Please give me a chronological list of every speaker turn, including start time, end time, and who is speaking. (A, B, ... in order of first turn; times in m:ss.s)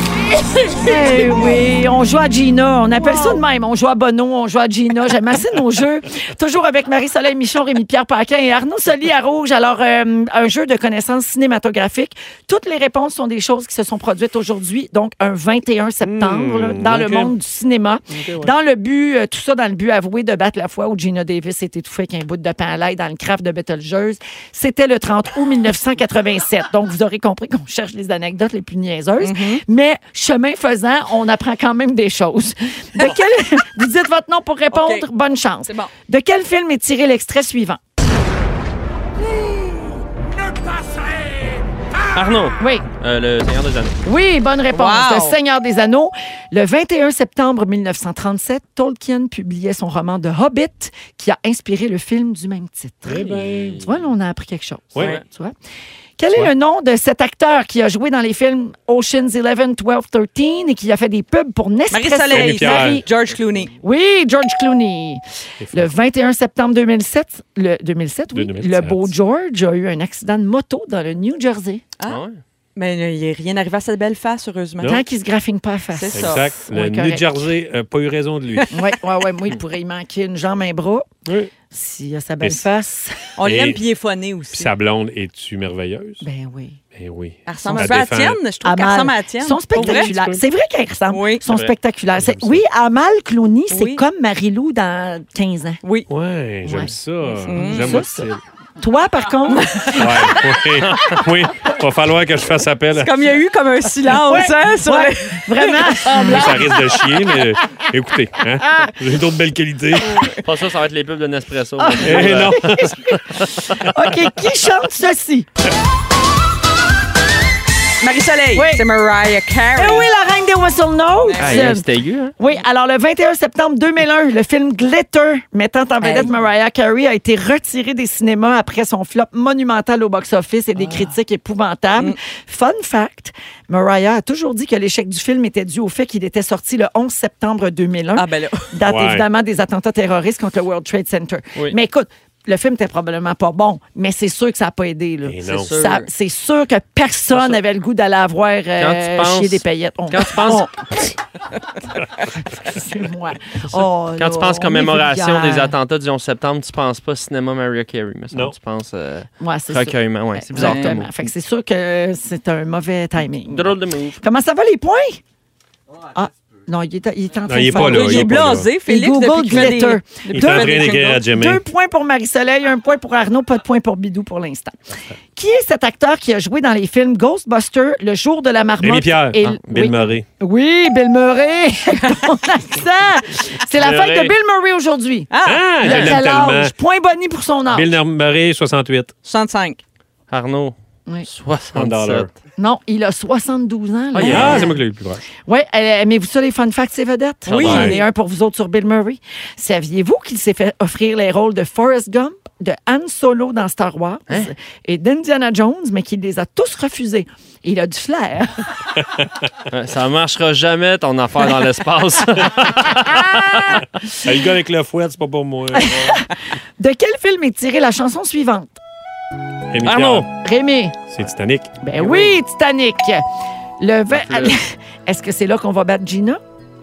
0:00.7-0:37.9 A
0:16.0-0:17.3 B
0:18.1-0:18.5 B
0:29.2-0:29.6 C
0:34.7-0:35.0 C
0:42.1-0:44.0 D
0:42.6-0:42.9 A
0:44.0-0:55.5 A
0:44.7-0:45.4 C
0:53.1-0:54.0 B
0:55.0-0:55.2 C
0:56.2-1:03.1 A
1:01.9-1:03.7 C
1:02.3-1:03.0 B
1:03.8-1:05.2 A
1:05.6-1:06.0 B
1:05.7-1:11.8 A
1:08.3-1:09.1 B
1:12.1-1:12.4 D
1:12.8-1:15.0 C
1:14.8-1:17.4 A
1:15.9-1:16.5 C
1:16.1-1:18.7 B
1:18.7-1:21.1 A
1:21.3-1:21.5 B
1:21.7-1:23.3 A
1:23.4-1:24.7 C
1:23.4-1:23.8 B
1:24.5-1:26.2 B
1:26.2-1:26.8 A
1:26.9-1:28.4 B
1:27.5-1:30.1 C
1:27.6-1:28.0 A
1:28.6-1:35.8 A
1:29.7-1:30.4 B
1:31.1-1:31.4 C
1:32.2-1:32.6 B
1:33.7-1:34.0 C
1:35.8-1:36.1 C
1:36.1-1:38.4 B
1:36.6-1:38.3 A
1:37.5-1:38.0 C
1:38.8-1:40.4 A
1:39.5-1:40.2 C
1:39.9-1:43.1 B
1:40.8-1:41.2 D
1:43.0-1:46.6 C
1:44.2-1:46.8 A
1:46.1-1:50.2 B
1:50.1-1:50.4 C
1:50.4-1:52.6 D
1:51.8-1:55.5 A
1:52.0-1:53.0 B
1:53.5-1:53.8 D
1:58.0-2:00.1 C
1:58.5-1:58.8 A
1:59.8-2:01.9 A
2:01.2-2:01.8 C
2:01.4-2:02.3 D
2:02.4-2:30.7 A
2:06.0-2:06.4 C
2:10.8-2:11.1 C
2:18.2-2:18.7 C
2:18.9-2:19.3 B
2:25.3-2:25.7 B
2:25.5-2:26.1 C
2:28.8-2:30.7 D
2:32.4-2:35.8 A
2:34.2-2:41.1 D
2:39.4-2:45.2 A
2:40.6-2:41.0 C
2:43.5-2:44.2 D
2:46.1-2:54.8 A
2:47.5-2:48.7 B
2:47.7-2:51.2 C
2:50.3-2:51.6 B
2:55.4-3:07.9 A
2:58.8-3:00.2 B
3:03.7-3:04.4 D
3:05.3-3:05.6 C
3:05.4-3:06.7 B
3:05.9-3:06.1 D
3:07.7-3:09.1 B
3:09.2-3:09.8 C
3:10.3-3:10.8 D
3:11.3-3:12.3 D
3:11.7-3:12.3 B
3:12.6-3:14.8 A
3:14.1-3:14.7 D
3:14.2-3:15.3 B
3:15.5-3:28.6 A
3:17.5-3:18.0 D
3:17.5-3:18.0 C
3:29.7-3:33.8 D
3:34.1-3:36.0 B
3:35.7-3:36.2 A
3:36.8-3:38.7 A
3:39.7-3:40.3 B
3:39.8-3:40.3 D
3:40.4-3:41.0 A
3:41.1-3:41.8 B
3:41.8-3:43.2 A
3:43.8-3:46.4 A
3:44.2-3:44.5 D